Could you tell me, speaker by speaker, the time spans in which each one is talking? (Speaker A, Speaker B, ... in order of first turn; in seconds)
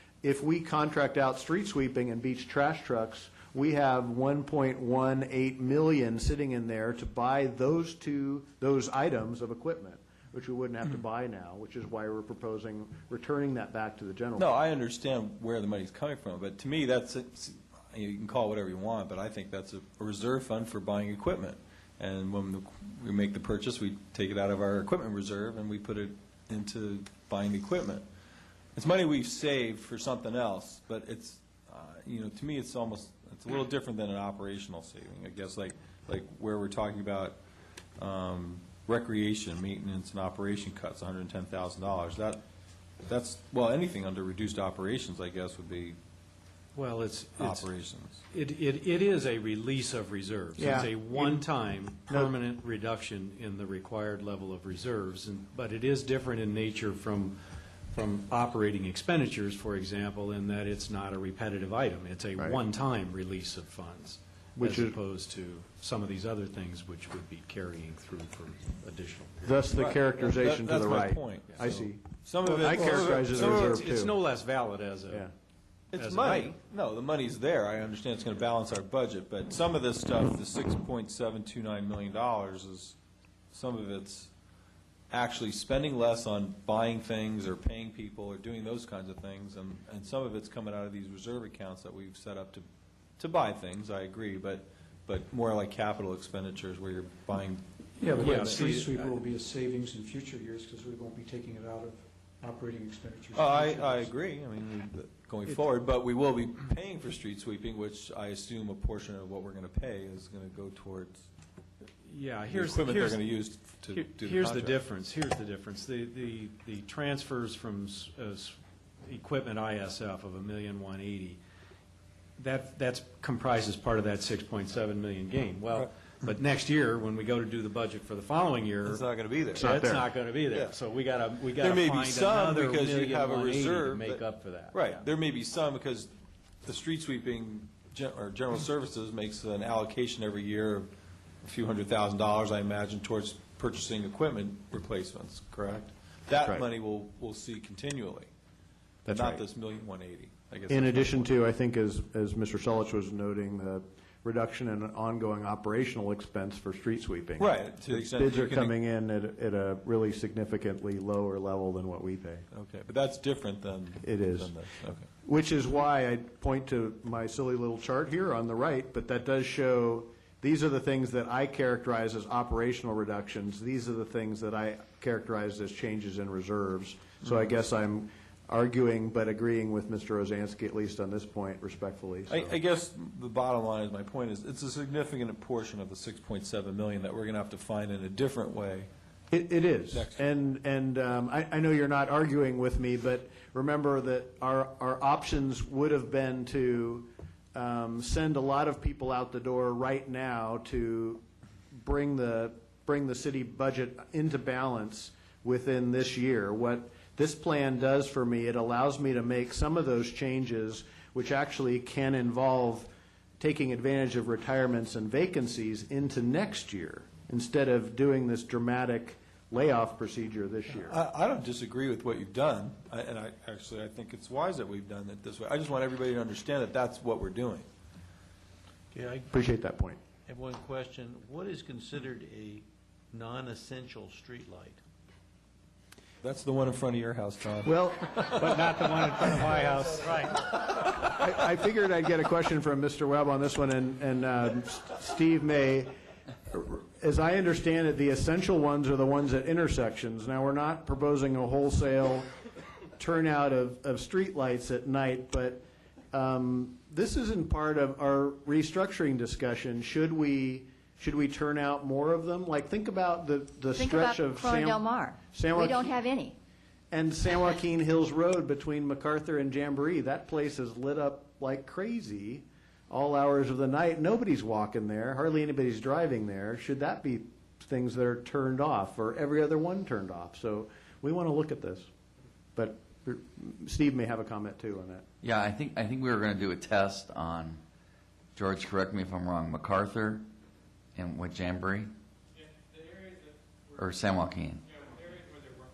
Speaker A: 0.2-14.6, 50.6-51.5, 64.6-65.0, 69.4-74.1, 129.6-130.0, 149.1-149.4, 150.7-162.5, 164.0-164.6, 165.2-182.6, 189.3-201.2, 201.7-221.0, 229.3-230.0, 237.7-238.4, 240.6-245.9, 246.5-252.3, 253.0-266.0, 266.9-281.9, 282.6-285.1
Speaker B: 14.4-28.1, 28.8-37.4, 38.0-42.4, 43.0-46.0, 47.4-48.2, 69.8-73.8, 75.9-83.0, 83.5-84.3, 85.1-92.7, 93.2-97.6, 98.3-98.8, 103.3-111.3, 112.5-114.8, 128.9-129.8, 131.6-134.2, 134.7-136.1, 136.7-140.9, 141.4-148.3, 149.1-151.3, 157.4-158.8, 162.5-165.1, 182.3-188.9, 189.9-190.2, 220.8-227.7, 236.2-238.5
Speaker C: 46.8-47.7, 48.3-57.4, 57.9-69.7, 71.6-71.9, 72.4-75.3, 75.9-76.5, 98.2-99.1, 112.0-121.4, 122.4-135.0, 238.3-240.3
Speaker D: 98.0-104.1
Speaker E: 228.9-229.3, 230.3-234.8, 294.9-295.3
Speaker F: 263.8-266.3
Speaker G: 285.2-287.6, 288.4-290.2, 290.9-291.9, 293.8-294.7